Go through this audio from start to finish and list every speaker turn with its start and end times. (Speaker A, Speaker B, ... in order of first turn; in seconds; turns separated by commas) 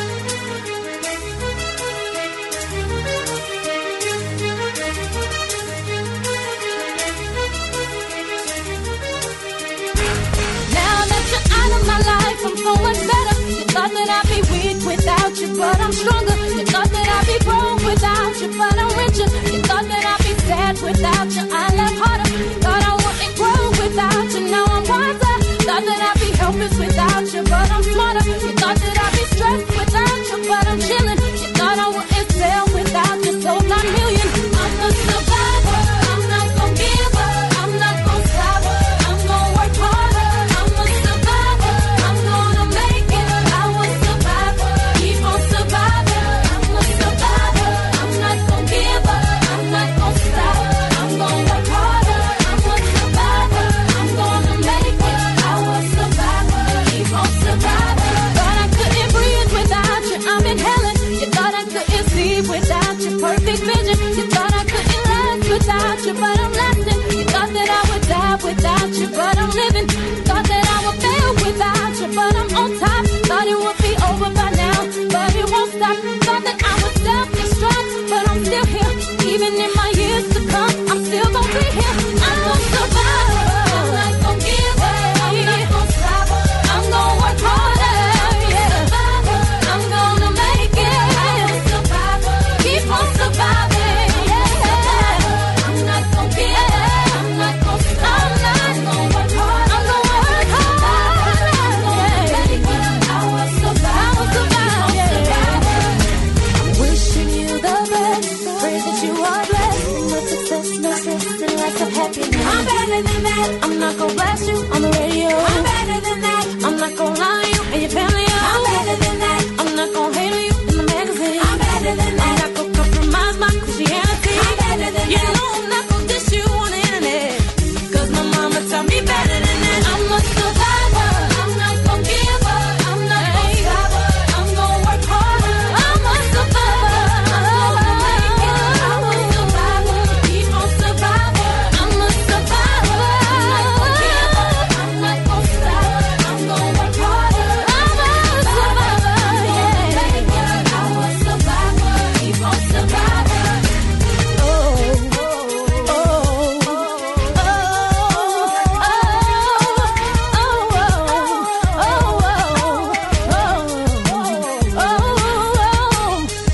Speaker A: 10.7-153.7, Speaker A: 154.4-166.3